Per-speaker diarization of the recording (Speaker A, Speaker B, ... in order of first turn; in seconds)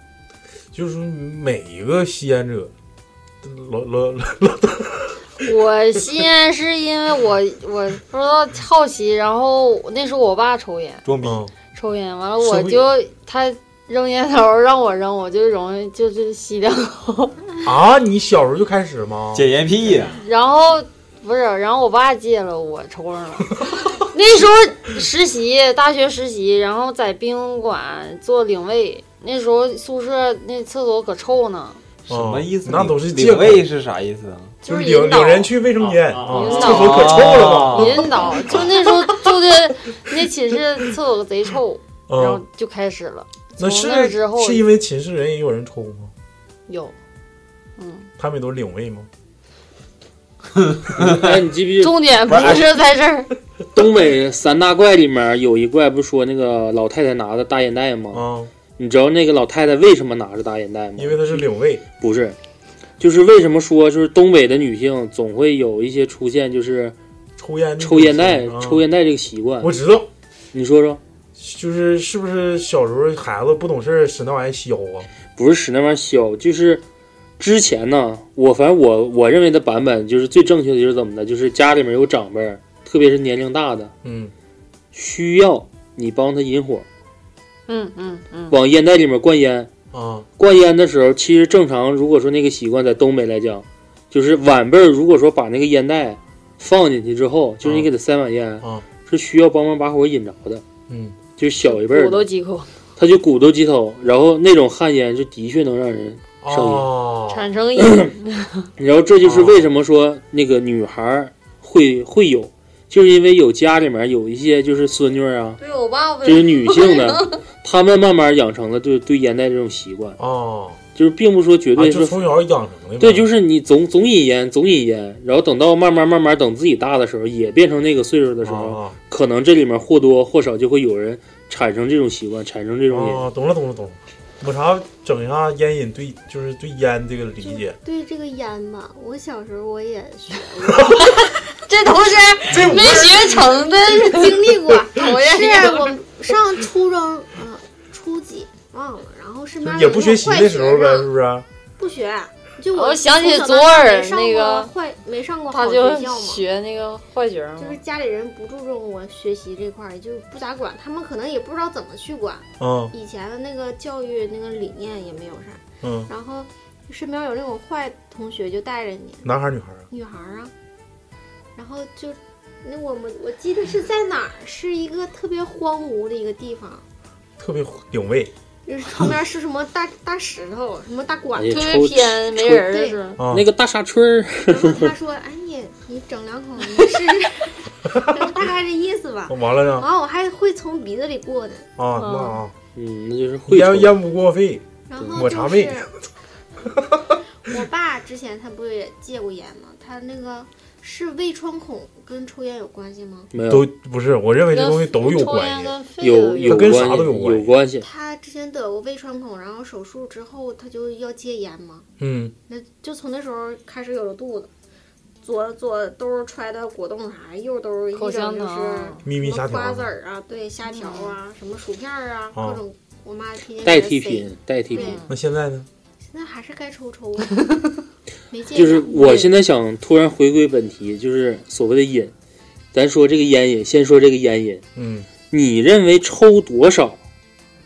Speaker A: 0.7-2.7, 3.4-5.2, 11.2-11.5, 12.4-12.9, 17.6-19.5, 32.1-33.6, 34.6-38.6, 42.1-42.4, 43.6-46.1, 48.2-49.1, 58.1-58.5, 61.0-61.8, 67.4-68.8, 69.6-70.1, 71.4-75.1, 84.0-84.3, 89.9-90.2, 97.6-97.9, 100.9-101.2, 106.4-107.5, 109.2-109.6, 120.2-120.8, 121.8-123.3, 128.4-128.9, 132.9-137.8, 142.5-143.5, 149.6-151.4, 162.6-162.9, 165.8-166.1, 169.2-169.9, 177.4-178.3, 183.2-183.4, 188.0-188.3, 189.3-189.9, 191.8-192.5, 193.5-195.9, 196.6-197.2, 203.4-205.8, 206.4-207.6, 212.0-212.3, 219.0-219.9, 222.3-222.6, 225.1-225.7, 234.7-235.1
Speaker B: 5.4-11.0, 11.7-17.4, 20.1-31.8, 34.6-35.5, 36.2-44.6, 46.7-46.9, 47.8-48.1, 51.8-53.3, 87.7-88.6, 101.6-102.7, 107.3-108.7, 115.6-117.3, 140.8-146.0, 152.7-154.7, 155.5-157.8, 181.5-183.2, 186.8-187.2, 191.9-192.4, 204.5-206.9, 217.9-219.0, 220.7-221.2, 224.7-225.1
Speaker C: 11.0-11.4, 19.3-20.2, 32.1-34.5, 35.8-38.9, 50.6-51.2, 52.3-52.6
Speaker D: 51.0-52.6, 53.7-58.2, 58.8-61.5, 62.0-62.4, 63.0-67.0, 67.8-69.7, 70.5-71.0, 75.3-76.8, 77.4-83.9, 84.9-86.8, 88.5-89.7, 90.4-100.6, 101.4-102.3, 103.0-106.9, 107.8-108.1, 108.8-115.6, 116.2-120.2, 120.9-122.2, 123.0-133.3, 181.3-182.7, 183.3-184.9, 192.7-194.0, 203.3-203.7, 206.0-207.9, 223.6-225.0, 228.5-232.1, 232.7-234.6, 235.3-237.0
Speaker E: 137.4-141.5, 142.6-151.1, 151.8-156.4, 157.6-169.3, 169.9-170.5, 171.6-176.8, 178.7-181.9, 182.5-183.0, 184.5-191.7, 194.9-195.9, 197.4-203.3, 207.8-211.9, 212.5-214.5, 215.2-225.0, 226.0-227.5, 228.3-229.3